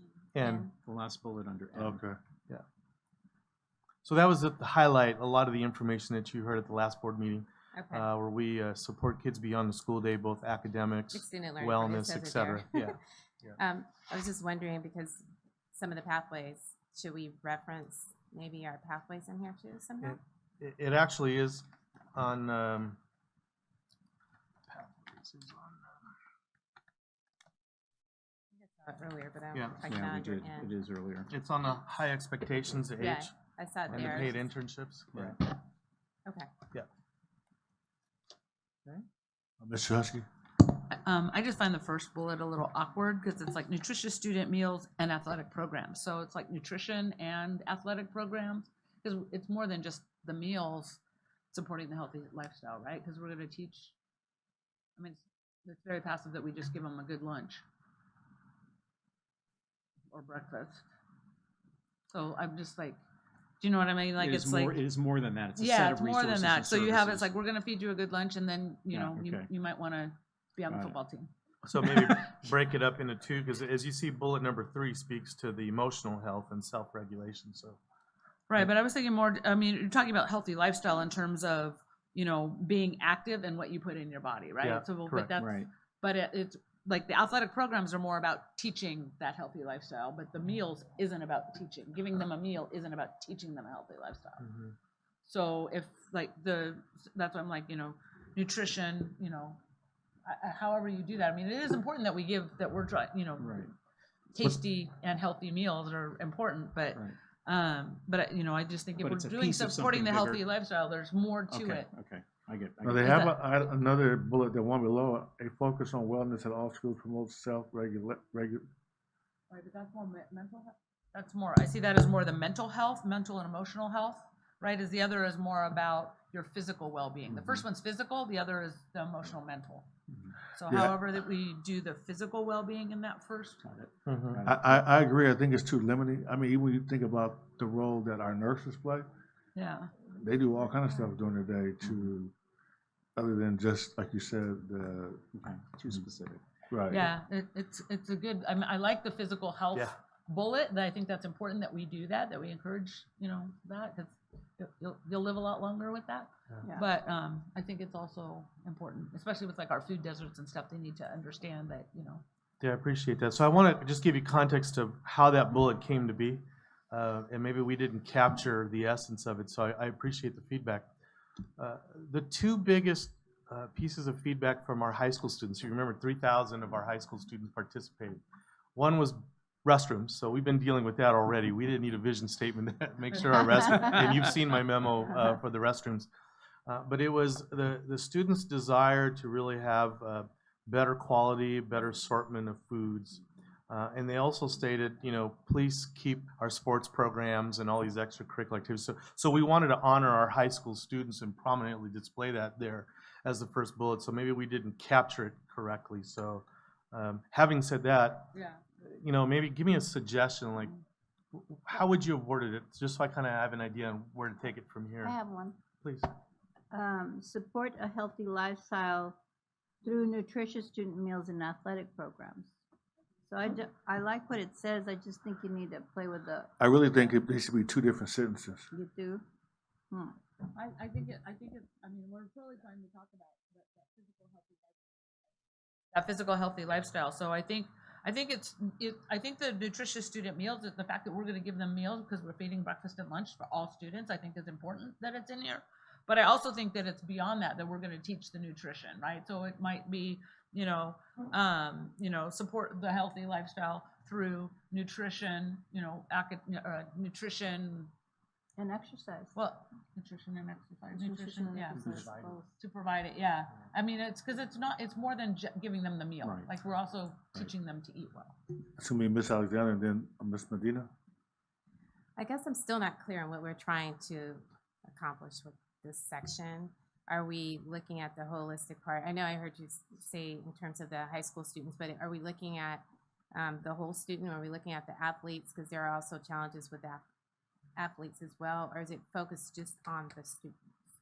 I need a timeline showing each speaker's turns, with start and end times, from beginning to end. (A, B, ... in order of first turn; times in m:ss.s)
0:00.3-0:00.7 A
0:00.4-0:00.7 B
0:00.8-0:02.0 C
0:01.7-0:02.2 D
0:04.0-0:13.6 A
0:07.7-0:08.1 B
0:11.1-0:13.0 B
0:13.6-0:20.2 B
0:20.0-0:23.0 A
0:24.7-0:25.9 A
0:28.6-0:30.8 B
0:29.5-0:29.8 A
0:29.8-0:31.3 C
0:31.3-0:33.3 A
0:33.0-0:34.4 B
0:33.9-0:35.4 A
0:36.2-0:36.5 B
0:39.6-0:40.2 D
0:40.7-0:51.0 E
0:51.5-0:53.9 E
0:55.0-0:57.6 E
1:00.1-1:00.8 E
1:02.1-1:03.0 E
1:03.6-1:04.8 E
1:04.2-1:07.3 C
1:05.6-1:11.3 E
1:08.9-1:09.5 C
1:10.7-1:11.0 C
1:11.6-1:17.8 A
1:11.8-1:12.2 E
1:18.5-1:34.4 E
1:24.6-1:25.3 A
1:25.4-1:25.7 C
1:34.4-1:34.7 A
1:35.2-1:39.6 E
1:40.2-1:43.6 E
1:43.4-1:43.7 C
1:44.3-1:51.9 E
1:49.0-1:50.5 C
1:51.5-1:53.1 C
1:52.8-1:58.6 D
1:53.0-1:53.4 E
1:59.5-2:09.9 E
2:10.5-2:13.6 E
2:10.7-2:11.0 D
2:13.6-2:14.8 C
2:14.0-2:14.4 A
2:14.4-2:19.0 D
2:19.5-2:19.9 E
2:20.2-2:22.3 D
2:21.8-2:22.1 C
2:23.2-2:25.2 D
2:25.3-2:26.4 C
2:26.7-2:27.1 D
2:26.9-2:42.2 E
2:42.6-2:50.9 A
2:51.6-2:58.2 A
2:58.7-3:06.1 A
3:06.7-3:30.8 A
3:28.3-3:28.6 E
3:31.3-3:35.1 A
3:35.0-3:35.6 F
3:35.8-3:36.1 A
3:36.7-3:39.2 F
3:39.8-3:42.5 F
3:43.3-3:46.5 F
3:46.6-3:48.7 D
3:48.7-3:49.2 F
3:49.9-3:50.2 F
3:50.5-3:54.8 E
3:55.9-4:17.9 E
4:18.6-4:19.3 F
4:19.3-4:21.9 E
4:20.9-4:22.5 F
4:21.7-4:22.4 A
4:21.8-4:22.1 C
4:22.6-4:28.4 E
4:26.2-4:26.5 C
4:28.8-4:30.9 D
4:32.2-4:42.8 B
4:43.3-4:47.0 B
4:47.8-4:50.6 B